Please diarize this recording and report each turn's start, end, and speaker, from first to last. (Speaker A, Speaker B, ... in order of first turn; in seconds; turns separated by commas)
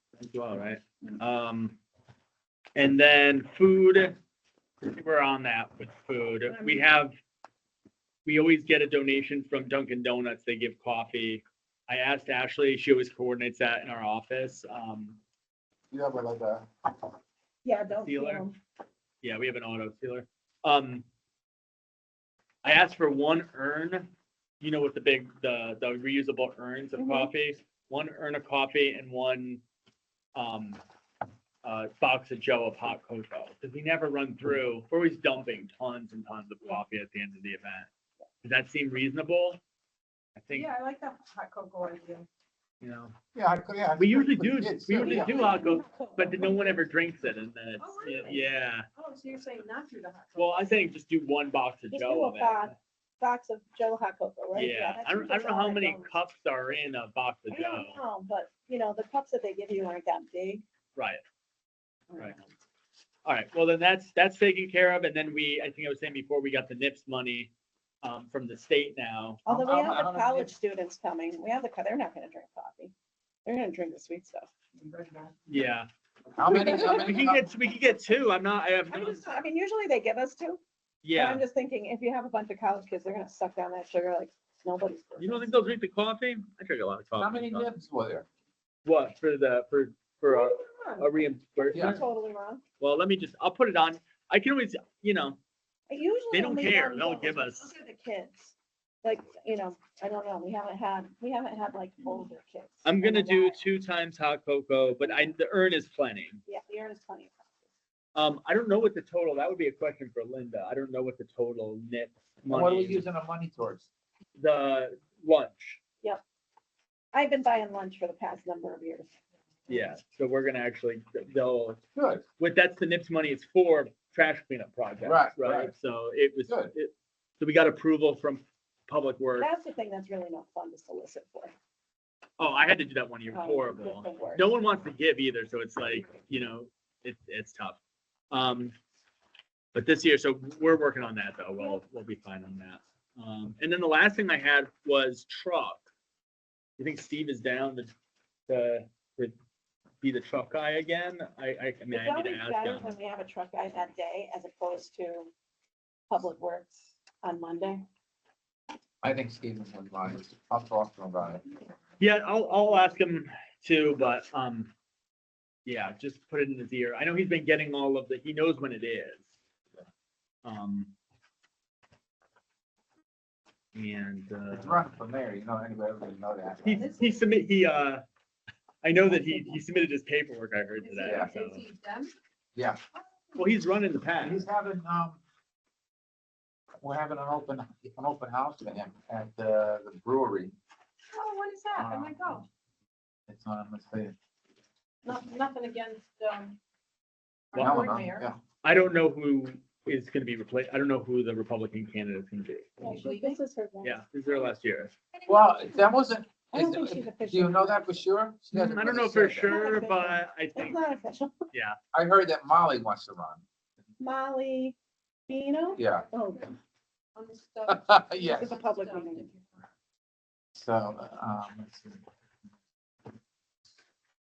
Speaker A: 0.2-1.8, Speaker A: 2.8-4.2, Speaker A: 4.8-7.2, Speaker B: 6.5-6.8, Speaker A: 8.3-15.2, Speaker C: 15.9-16.7, Speaker B: 17.6-18.6, Speaker A: 17.9-18.4, Speaker A: 19.2-21.1, Speaker A: 22.6-29.6, Speaker B: 27.0-27.3, Speaker A: 30.4-30.8, Speaker A: 31.6-37.9, Speaker A: 38.4-39.6, Speaker A: 40.4-40.7, Speaker D: 40.5-42.3, Speaker A: 42.8-43.1, Speaker C: 43.4-45.6, Speaker A: 44.0-48.9, Speaker B: 44.9-46.8, Speaker D: 47.8-48.4, Speaker D: 49.0-50.8, Speaker A: 50.4-52.7, Speaker B: 51.9-56.1, Speaker A: 54.5-58.0, Speaker B: 57.5-60.6, Speaker B: 62.1-62.5, Speaker A: 63.2-67.5, Speaker A: 68.0-69.4, Speaker B: 69.5-72.9, Speaker C: 69.5-70.5, Speaker B: 73.5-74.5, Speaker A: 75.5-75.9, Speaker C: 76.3-77.5, Speaker A: 76.4-79.4, Speaker B: 76.5-77.2, Speaker B: 78.9-80.6, Speaker A: 81.0-81.5, Speaker B: 81.2-85.5, Speaker A: 85.2-87.7, Speaker C: 87.2-88.3, Speaker A: 88.8-92.0, Speaker B: 90.3-91.1, Speaker B: 91.6-92.6, Speaker C: 91.7-92.0, Speaker A: 92.8-95.4, Speaker B: 95.9-103.6, Speaker A: 96.3-97.7, Speaker A: 102.8-106.4, Speaker B: 105.0-105.3, Speaker B: 106.5-107.4, Speaker A: 108.2-113.1, Speaker C: 112.5-113.9, Speaker A: 114.4-115.8, Speaker B: 117.1-119.1, Speaker A: 119.7-121.8, Speaker C: 122.0-122.2, Speaker A: 122.4-129.5, Speaker C: 125.0-125.7, Speaker C: 126.5-126.7, Speaker B: 129.4-131.5, Speaker A: 132.4-137.8, Speaker B: 133.3-134.5, Speaker A: 138.3-138.7, Speaker A: 139.7-145.8, Speaker A: 146.8-147.9, Speaker A: 148.5-149.3, Speaker A: 150.0-152.9, Speaker B: 151.9-155.3, Speaker B: 156.1-157.9, Speaker C: 159.0-161.4, Speaker A: 162.0-164.7, Speaker A: 165.7-169.3, Speaker A: 170.4-170.9, Speaker A: 173.8-174.8, Speaker C: 174.5-176.9, Speaker A: 176.7-178.0, Speaker D: 176.8-177.1, Speaker A: 178.8-181.7, Speaker D: 180.8-182.1, Speaker C: 181.0-181.3, Speaker C: 182.6-182.8, Speaker A: 183.4-184.5, Speaker C: 184.2-185.2, Speaker C: 186.8-190.5, Speaker D: 191.1-192.5, Speaker C: 191.7-192.4, Speaker C: 193.3-194.2, Speaker D: 195.1-196.6, Speaker D: 197.5-198.3, Speaker A: 197.5-197.8, Speaker C: 197.5-198.4, Speaker A: 198.6-202.7, Speaker D: 202.8-203.4, Speaker B: 202.8-204.0, Speaker A: 203.8-204.9, Speaker D: 205.2-205.8, Speaker C: 205.3-209.7, Speaker B: 206.5-208.1, Speaker A: 208.5-210.8, Speaker B: 209.4-211.4, Speaker A: 211.5-211.8, Speaker C: 211.9-213.4, Speaker B: 214.0-214.8, Speaker B: 215.3-216.5, Speaker D: 215.7-216.5, Speaker C: 215.8-216.1, Speaker D: 217.2-219.6, Speaker C: 217.7-218.6, Speaker B: 218.3-219.3, Speaker C: 220.6-222.0